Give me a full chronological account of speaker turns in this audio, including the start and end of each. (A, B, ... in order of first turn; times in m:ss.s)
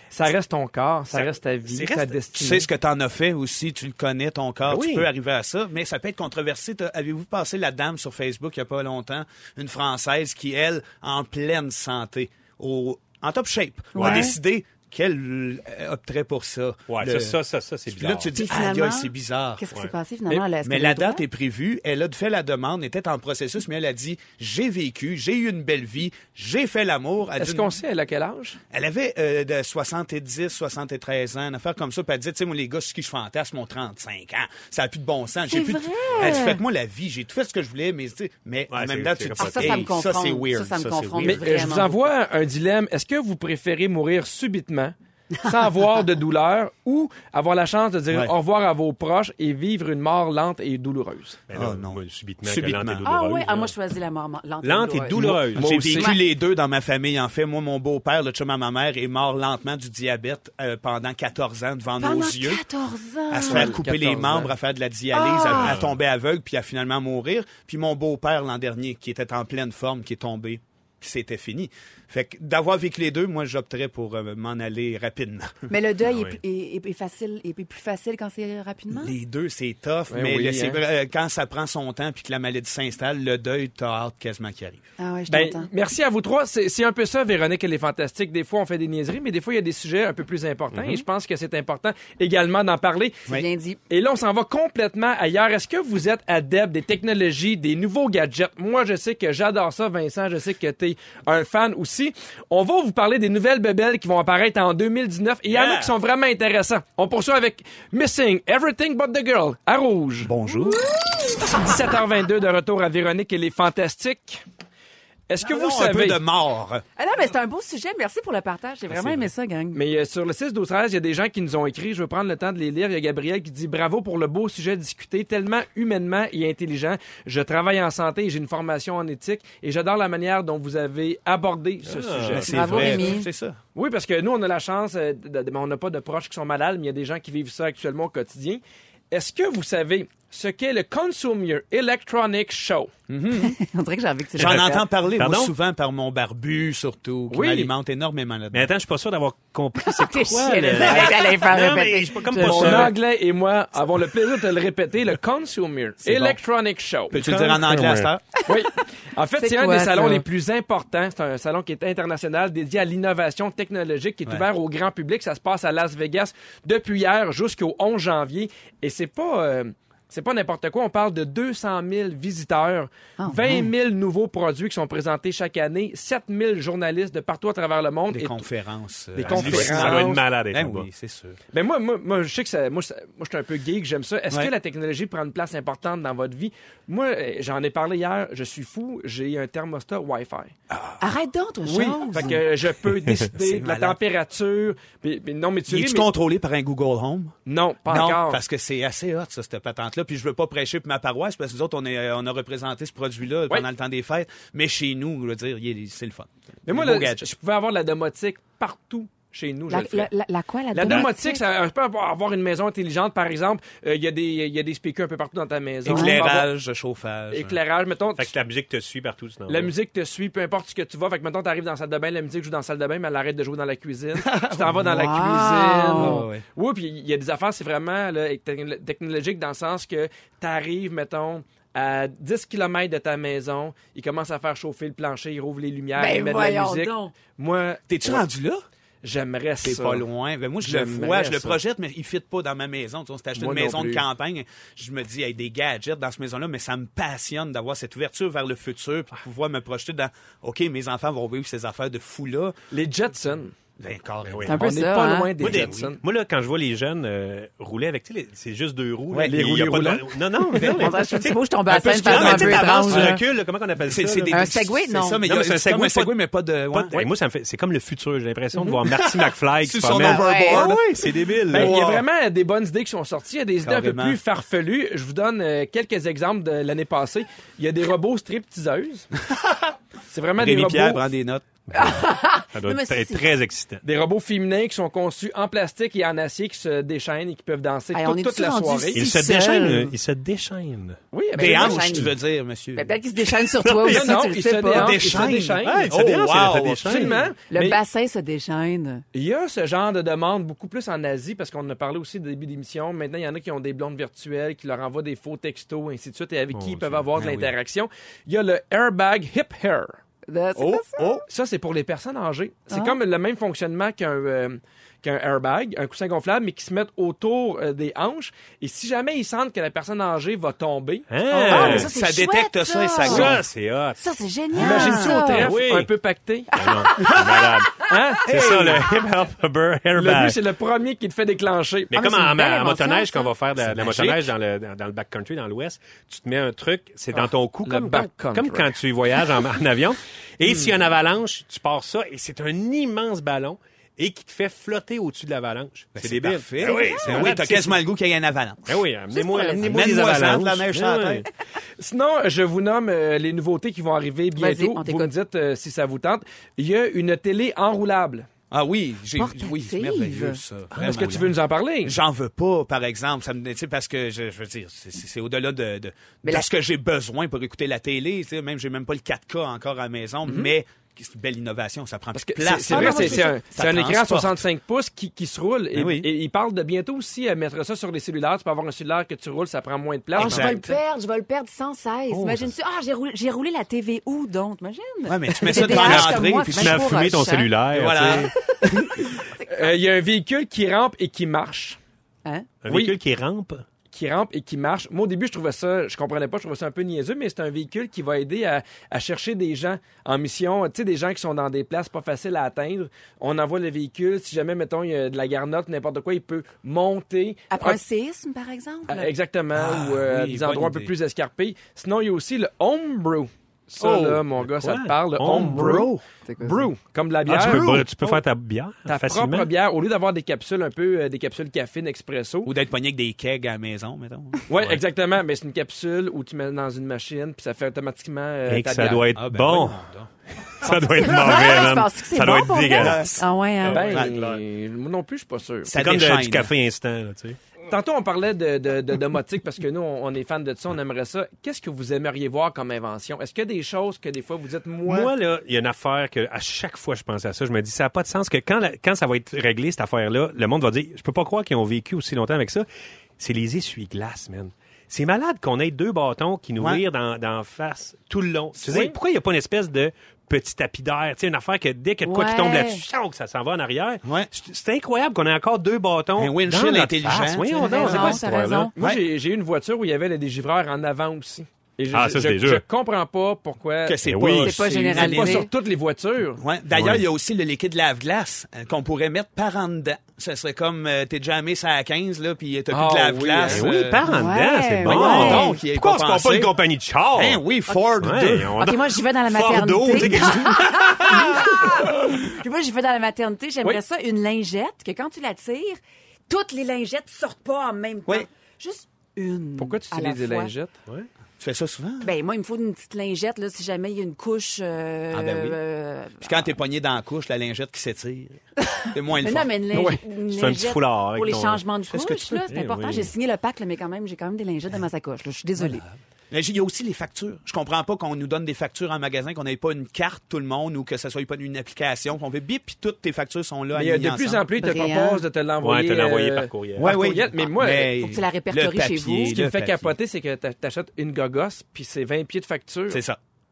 0:00.1-0:02.7 A
0:01.1-0:02.2 B
0:02.4-0:17.4 C
0:04.7-0:05.1 B
0:14.0-0:14.3 B
0:14.0-0:14.4 D
0:16.9-0:18.3 B
0:17.9-0:19.6 C
0:18.4-0:21.2 D
0:20.6-0:27.7 C
0:27.4-0:28.6 A
0:28.7-0:41.4 C
0:35.4-0:36.6 D
0:38.7-0:39.9 B
0:39.4-0:42.1 D
0:41.2-0:51.4 A
0:51.5-0:53.7 B
0:51.5-0:53.0 C
0:53.0-0:55.2 D
0:54.6-0:56.0 B
0:55.2-1:02.6 C
0:55.5-0:56.1 A
1:02.0-1:03.8 D
1:03.3-1:15.7 C
1:03.4-1:04.5 A
1:05.1-1:05.8 D
1:05.6-1:05.9 B
1:15.7-1:19.1 D
1:16.1-1:16.4 B
1:18.9-1:24.8 C
1:20.1-1:20.8 A
1:25.0-1:25.7 D
1:25.3-1:33.2 A
1:30.8-1:31.0 B
1:33.3-1:33.8 D
1:33.9-1:50.3 A
1:45.5-1:45.8 B
1:50.2-1:50.8 C
1:51.5-1:54.4 A
1:55.3-1:56.2 A
1:55.4-1:56.8 C
1:57.0-1:59.8 D
1:58.9-1:59.3 B
1:59.7-2:13.0 A
2:11.9-2:12.9 B
2:12.3-2:13.6 C
2:12.5-2:13.3 D
2:13.8-2:22.9 A
2:23.1-2:23.5 C
2:23.4-2:24.9 D
2:24.4-2:28.7 C
2:24.4-2:25.5 B
2:27.3-2:27.7 A
2:28.5-2:33.0 B
2:29.8-2:32.9 D
2:32.4-2:37.2 A
2:36.0-2:36.4 C
2:37.1-2:38.2 C
2:37.2-2:38.1 B
2:38.5-2:58.4 A
2:39.4-2:40.2 D
2:53.2-2:53.7 D
2:58.1-3:01.4 C
2:59.2-3:00.2 A
2:59.2-3:00.9 B
3:01.5-3:10.5 A
3:11.0-3:12.4 D
3:11.7-3:16.1 A
3:13.3-3:14.0 C
3:15.7-3:17.3 C
3:17.5-3:18.4 A
3:17.8-3:27.3 C
3:26.7-3:30.1 A
3:29.7-3:31.4 D
3:30.7-3:36.5 A
3:35.8-3:37.6 C
3:35.9-3:36.2 D
3:37.3-3:38.3 A
3:38.2-3:39.7 B
3:39.5-3:58.2 A
3:44.2-3:44.8 C
3:44.7-3:46.2 D
3:46.0-3:46.4 C
3:56.0-3:57.1 D
3:57.9-3:58.6 C
3:59.0-4:00.0 A
3:59.6-4:12.6 C
4:00.6-4:01.6 A
4:03.4-4:04.0 A
4:12.7-4:13.5 A
4:13.8-4:14.6 C
4:14.2-4:14.6 B
4:14.5-4:15.3 D
4:14.5-4:16.0 A
4:15.4-4:24.4 B
4:19.1-4:19.4 C
4:19.3-4:20.7 A
4:20.6-4:20.8 C
4:20.8-4:23.2 D
4:22.1-4:23.2 C
4:23.8-4:27.0 C
4:24.3-4:25.2 D
4:25.2-4:26.1 B
4:26.7-4:31.8 B
4:28.8-4:32.0 C
4:30.0-4:30.7 D
4:31.5-4:39.1 A
4:33.6-4:34.2 C
4:40.1-4:41.0 A
4:40.4-4:41.5 C
4:41.7-4:43.8 B
4:41.7-4:43.3 D
4:43.8-4:49.0 A
4:47.9-4:50.0 D
4:48.9-4:51.0 B
4:51.1-4:52.0 A
4:51.3-4:52.1 D
4:51.3-4:52.9 C
4:52.8-4:55.2 D
4:53.3-4:54.2 B
4:53.9-4:55.9 A
4:54.7-4:57.2 C
4:55.6-4:57.2 B
4:56.8-4:57.8 A
4:57.5-4:59.0 D
4:59.1-5:10.0 A
5:06.5-5:07.1 B
5:07.2-5:07.5 C
5:10.3-5:11.2 D
5:10.7-5:11.2 C
5:11.3-5:21.8 A
5:12.7-5:13.0 D
5:21.1-5:21.9 B
5:21.5-5:23.4 D
5:21.5-5:23.4 C
5:23.0-5:24.0 B
5:24.0-5:25.5 D
5:24.6-5:25.9 B
5:24.6-5:27.1 A
5:26.5-5:27.2 D
5:26.5-5:30.4 B
5:27.8-5:28.8 A
5:30.0-5:31.9 A
5:31.9-5:47.8 B
5:31.9-5:33.3 D
5:33.7-5:34.2 A
5:37.1-5:38.7 A
5:46.0-5:48.8 C
5:46.6-5:47.3 D
5:48.7-5:51.3 B
5:49.1-5:50.0 D
5:49.6-5:51.2 C
5:51.8-5:58.3 A
5:54.4-5:55.1 D
5:58.5-6:14.4 C
5:59.2-6:00.4 D
6:00.7-6:01.2 B
6:00.8-6:02.0 A
6:10.2-6:10.5 A
6:12.2-6:20.7 A
6:12.7-6:13.4 D
6:15.8-6:16.1 C
6:20.2-6:20.6 C
6:20.2-6:27.5 D
6:22.1-6:22.5 B
6:25.1-6:27.1 C
6:25.6-6:28.3 B
6:27.7-6:29.0 C
6:29.4-6:29.7 D
6:29.5-6:31.8 A
6:32.6-6:33.6 B
6:32.7-6:32.9 A
6:33.9-6:47.8 A
6:47.5-6:49.1 D
6:48.9-6:58.2 A
6:49.5-6:50.9 C
6:53.8-6:54.2 C
6:53.9-6:55.9 B
6:55.2-6:56.0 C
6:56.3-6:56.7 D
6:57.3-6:59.5 B
6:57.3-6:57.8 C
6:58.8-7:02.5 A
7:02.4-7:04.4 C
7:04.5-7:09.0 A
7:08.5-7:09.8 B
7:09.2-7:10.1 C
7:10.5-7:14.4 B
7:10.7-7:14.0 D
7:12.8-7:13.2 C
7:13.7-7:15.8 A
7:15.7-7:16.5 C
7:15.8-7:17.4 B
7:17.7-7:25.1 A
7:24.8-7:32.7 B
7:33.2-7:48.7 B
7:38.7-7:38.9 A
7:42.0-7:42.8 D
7:44.0-7:44.3 C
7:46.2-7:48.2 C
7:47.6-7:48.7 D
7:48.8-7:54.0 A
7:48.8-7:49.0 C
7:51.9-7:52.6 B
7:53.8-7:55.5 C
7:54.0-7:54.6 B
7:54.4-7:55.5 D
7:54.6-7:56.4 A
7:56.4-8:04.0 C
7:56.7-7:57.0 B
8:02.7-8:04.0 A
8:03.5-8:07.4 B
8:04.0-8:05.5 D
8:04.9-8:06.5 C
8:05.0-8:05.5 A
8:07.1-8:08.6 C
8:08.0-8:11.6 B
8:08.6-8:20.5 D
8:10.0-8:10.3 C
8:19.6-8:20.7 A
8:21.4-8:22.1 C
8:22.0-8:26.5 D
8:25.1-8:25.6 C
8:26.2-8:28.4 C
8:28.7-8:35.8 D
8:28.9-8:29.5 C
8:29.7-8:30.0 A
8:30.2-8:31.7 B
8:31.9-8:32.4 C
8:32.4-8:33.1 B
8:36.3-8:44.5 C
8:43.7-8:47.9 A
8:44.6-8:45.2 D
8:45.6-8:47.0 B
8:46.8-8:49.9 C
8:47.9-8:49.4 D
8:49.3-8:53.0 A
8:52.9-8:53.2 C